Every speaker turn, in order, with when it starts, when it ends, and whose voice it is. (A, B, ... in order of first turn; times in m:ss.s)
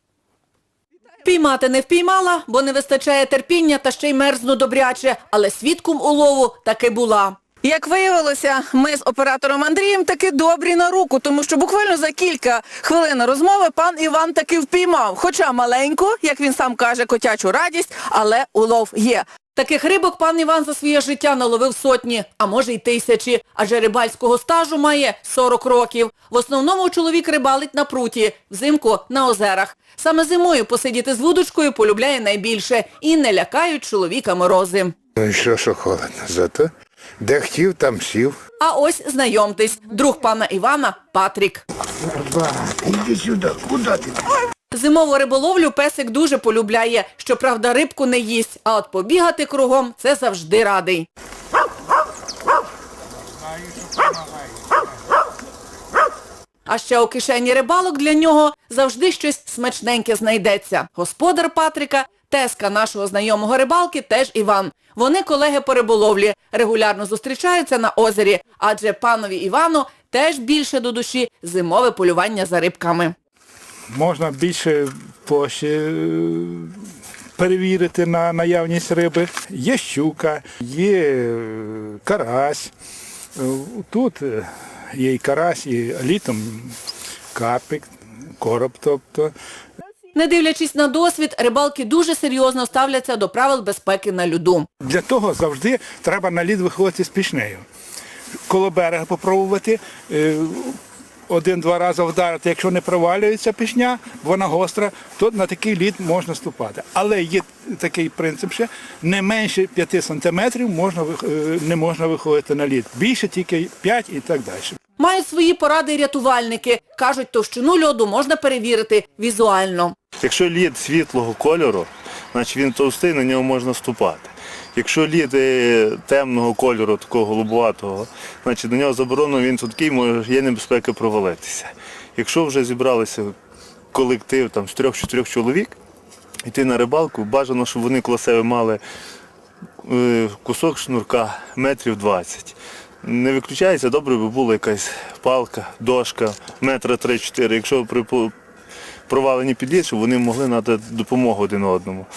0:01.2-0:35.0 A
0:35.2-0:38.4 B
0:38.6-0:41.6 A
0:42.2-0:44.2 B
0:44.7-0:51.1 A
0:53.4-0:54.8 C
0:56.7-1:13.1 A
1:13.9-1:16.8 C
1:17.4-1:22.7 C
1:23.4-1:26.8 C
1:27.3-1:27.9 C
1:28.4-1:29.3 C
1:30.2-1:34.7 A
1:34.8-1:37.6 C
1:38.5-1:54.8 C
1:55.0-2:00.0 A
2:00.2-2:13.3 D
2:13.9-2:15.8 D
2:16.5-2:18.8 D
2:19.8-2:28.3 D
2:29.1-2:32.1 D